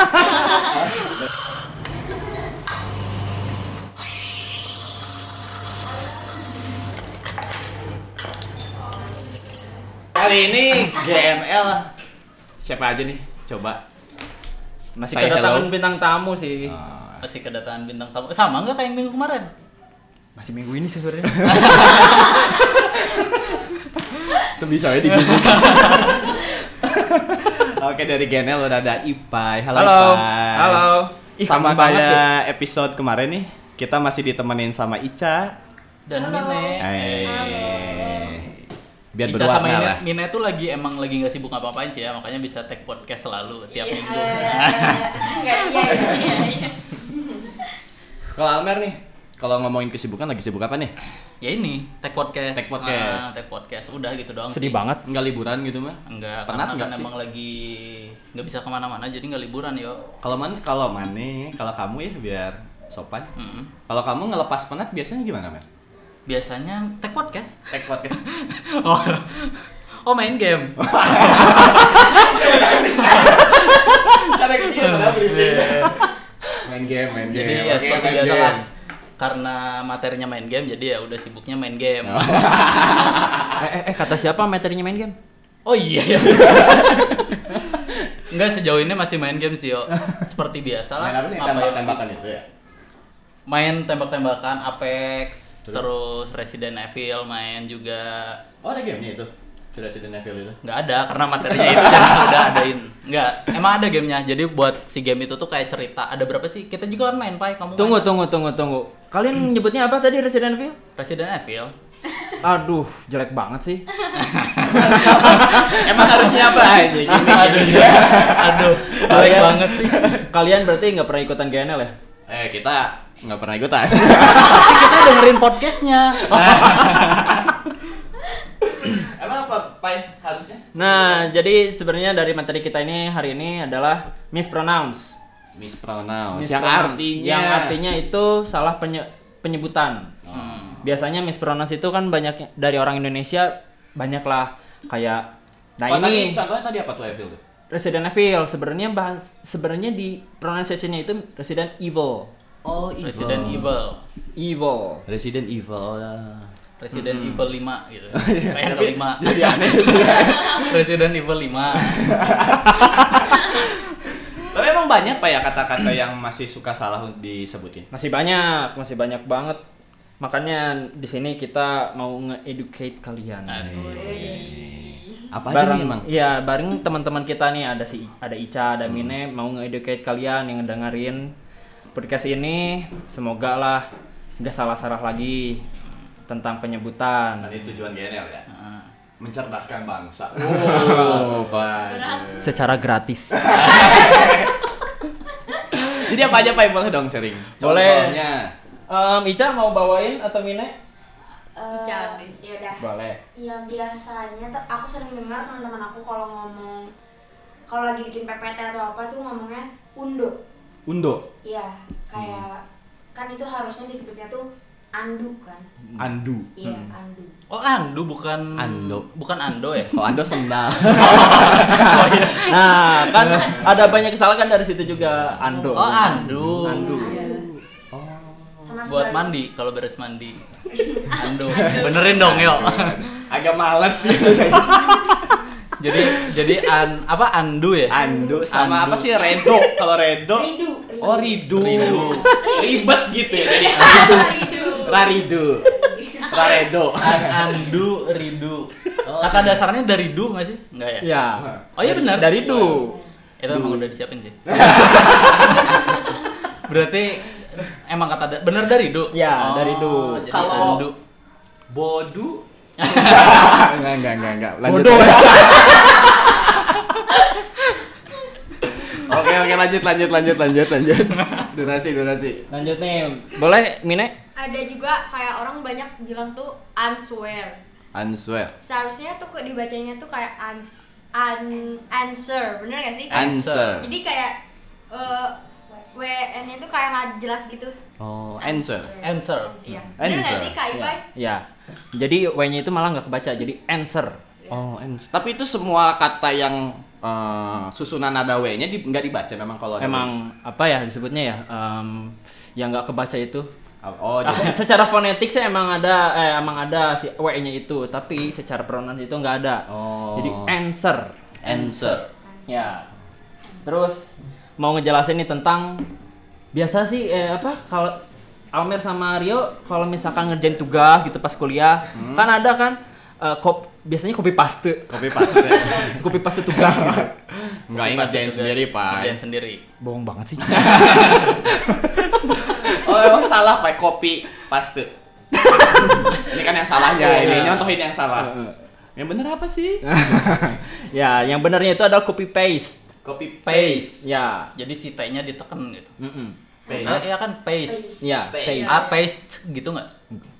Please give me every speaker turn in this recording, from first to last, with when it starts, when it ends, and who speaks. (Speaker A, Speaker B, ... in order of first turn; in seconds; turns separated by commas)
Speaker A: 0.6-0.9, Speaker A: 10.2-11.9, Speaker A: 12.6-13.8, Speaker B: 14.9-16.8, Speaker A: 15.1-15.7, Speaker A: 16.6-17.2, Speaker C: 17.2-19.5, Speaker B: 20.4-22.3, Speaker C: 21.5-22.4, Speaker A: 24.5-26.4, Speaker C: 25.2-26.3, Speaker B: 27.0-27.5, Speaker A: 27.6-30.9, Speaker B: 29.7-32.2, Speaker A: 31.5-35.5, Speaker C: 36.1-37.8, Speaker D: 36.1-36.7, Speaker E: 36.2-38.4, Speaker A: 36.8-38.6, Speaker A: 39.1-40.0, Speaker C: 39.2-45.4, Speaker D: 43.7-47.6, Speaker E: 45.4-46.8, Speaker A: 48.3-50.9, Speaker C: 51.4-54.8, Speaker A: 52.5-53.3, Speaker B: 54.5-55.0, Speaker A: 55.0-57.1, Speaker C: 56.1-60.0, Speaker A: 60.2-63.3, Speaker C: 63.4-63.7, Speaker A: 63.9-65.6, Speaker C: 66.3-70.8, Speaker A: 67.7-68.2, Speaker A: 70.8-76.0, Speaker C: 71.8-72.5, Speaker C: 73.2-76.1, Speaker A: 76.6-78.6, Speaker C: 77.3-78.7, Speaker C: 79.2-82.6, Speaker A: 82.0-83.6, Speaker B: 83.6-85.1, Speaker C: 85.6-87.2, Speaker A: 86.4-86.8, Speaker C: 88.3-92.0, Speaker A: 91.0-92.4, Speaker C: 93.5-98.4, Speaker A: 98.6-100.6, Speaker C: 100.6-108.1, Speaker A: 101.8-102.1, Speaker B: 107.8-110.8, Speaker C: 111.0-111.7, Speaker B: 112.4-113.8, Speaker C: 114.2-115.5, Speaker B: 114.7-117.9, Speaker A: 114.8-120.2, Speaker C: 117.2-120.0, Speaker B: 119.0-121.9, Speaker A: 122.3-125.3, Speaker C: 124.2-127.3, Speaker A: 126.2-127.6, Speaker A: 128.6-131.1, Speaker B: 130.7-135.1, Speaker A: 135.5-137.8, Speaker B: 136.3-140.1, Speaker A: 140.2-140.8, Speaker C: 140.3-140.8, Speaker B: 140.8-145.3, Speaker B: 145.8-146.4, Speaker A: 145.9-147.4, Speaker B: 147.7-152.3, Speaker A: 152.6-153.7, Speaker C: 153.0-154.0, Speaker B: 154.4-155.0, Speaker A: 155.1-156.5, Speaker C: 156.8-162.1, Speaker B: 156.9-157.4, Speaker A: 158.1-160.8, Speaker A: 161.8-163.4, Speaker B: 162.8-163.3, Speaker A: 164.4-167.9, Speaker B: 167.9-169.6, Speaker B: 170.2-173.7, Speaker C: 173.4-174.2, Speaker A: 173.6-176.1, Speaker E: 173.8-175.2, Speaker B: 175.5-181.3, Speaker A: 178.8-179.1, Speaker B: 181.9-183.8, Speaker B: 184.4-185.6, Speaker B: 186.3-187.5, Speaker A: 187.4-188.4, Speaker C: 188.5-188.9, Speaker A: 189.2-192.6, Speaker B: 190.5-191.3, Speaker E: 191.7-192.4, Speaker B: 192.4-193.8, Speaker A: 193.3-194.5, Speaker E: 193.7-194.4, Speaker A: 195.9-198.5, Speaker B: 197.6-198.2, Speaker B: 198.9-200.7, Speaker D: 201.5-202.8, Speaker E: 201.7-202.4, Speaker B: 202.8-203.2, Speaker D: 203.3-206.8, Speaker D: 207.7-210.4, Speaker A: 210.9-211.2, Speaker D: 211.4-212.6, Speaker A: 212.2-212.4, Speaker D: 213.1-215.7, Speaker A: 216.0-216.5, Speaker D: 216.6-217.3, Speaker B: 216.6-216.9, Speaker C: 217.5-220.0, Speaker A: 218.6-219.1, Speaker A: 219.8-222.4, Speaker C: 220.9-223.3, Speaker B: 222.1-227.4, Speaker A: 223.3-224.0, Speaker A: 224.9-226.6, Speaker C: 225.7-227.0, Speaker D: 226.7-227.4, Speaker E: 226.9-227.4, Speaker A: 227.9-228.8, Speaker D: 228.6-229.3, Speaker C: 228.8-230.4, Speaker D: 230.7-231.1, Speaker C: 231.1-233.0, Speaker A: 231.6-235.2, Speaker E: 231.6-232.0, Speaker C: 235.8-237.9, Speaker A: 236.0-236.5, Speaker A: 237.9-240.5, Speaker D: 237.9-238.4, Speaker C: 238.5-239.1, Speaker D: 240.3-242.7, Speaker A: 241.0-245.7, Speaker C: 241.6-242.3, Speaker E: 242.4-245.0, Speaker D: 243.6-246.6, Speaker A: 246.3-247.7, Speaker C: 247.0-251.1, Speaker A: 249.0-249.6, Speaker B: 251.0-253.0, Speaker A: 251.4-251.6, Speaker C: 251.8-252.4, Speaker D: 252.4-253.1, Speaker C: 253.4-254.5, Speaker A: 253.5-253.9, Speaker A: 254.5-255.9, Speaker C: 255.3-255.8, Speaker C: 256.6-260.9, Speaker B: 259.1-260.4, Speaker A: 260.3-260.9, Speaker A: 261.7-266.7, Speaker C: 262.8-263.4, Speaker B: 264.6-265.7, Speaker A: 269.0-272.4, Speaker B: 272.5-274.1, Speaker E: 274.4-277.6, Speaker A: 277.9-278.5, Speaker E: 278.6-283.2, Speaker D: 281.5-281.9, Speaker C: 283.1-283.8, Speaker A: 283.1-283.9, Speaker E: 283.8-284.4, Speaker E: 284.9-285.3, Speaker E: 285.9-287.8, Speaker A: 288.0-288.9, Speaker D: 288.6-289.9, Speaker C: 289.0-289.6, Speaker E: 289.6-291.0, Speaker A: 290.0-290.6, Speaker B: 290.7-294.2, Speaker A: 294.5-300.1, Speaker B: 299.8-303.5, Speaker A: 303.8-304.6, Speaker B: 304.2-311.1, Speaker A: 309.7-310.5, Speaker A: 311.4-312.0, Speaker C: 311.5-312.1, Speaker B: 312.5-312.9, Speaker B: 313.6-315.9, Speaker B: 316.5-318.0, Speaker B: 318.5-327.1, Speaker A: 321.9-322.2, Speaker A: 324.9-329.2, Speaker C: 327.8-329.6, Speaker B: 329.8-332.9, Speaker A: 330.4-331.4, Speaker A: 332.5-334.9, Speaker B: 335.4-336.2, Speaker A: 335.7-338.3, Speaker B: 336.9-338.6, Speaker A: 338.9-339.9, Speaker B: 339.8-342.8, Speaker A: 343.0-344.1, Speaker C: 343.4-343.9, Speaker B: 344.0-344.5, Speaker C: 344.6-345.9, Speaker B: 346.0-346.4, Speaker D: 346.7-347.0, Speaker A: 346.7-347.1, Speaker C: 346.8-347.9, Speaker D: 347.6-348.3, Speaker B: 348.0-348.8, Speaker A: 348.3-348.9, Speaker E: 348.6-348.9, Speaker C: 348.6-349.9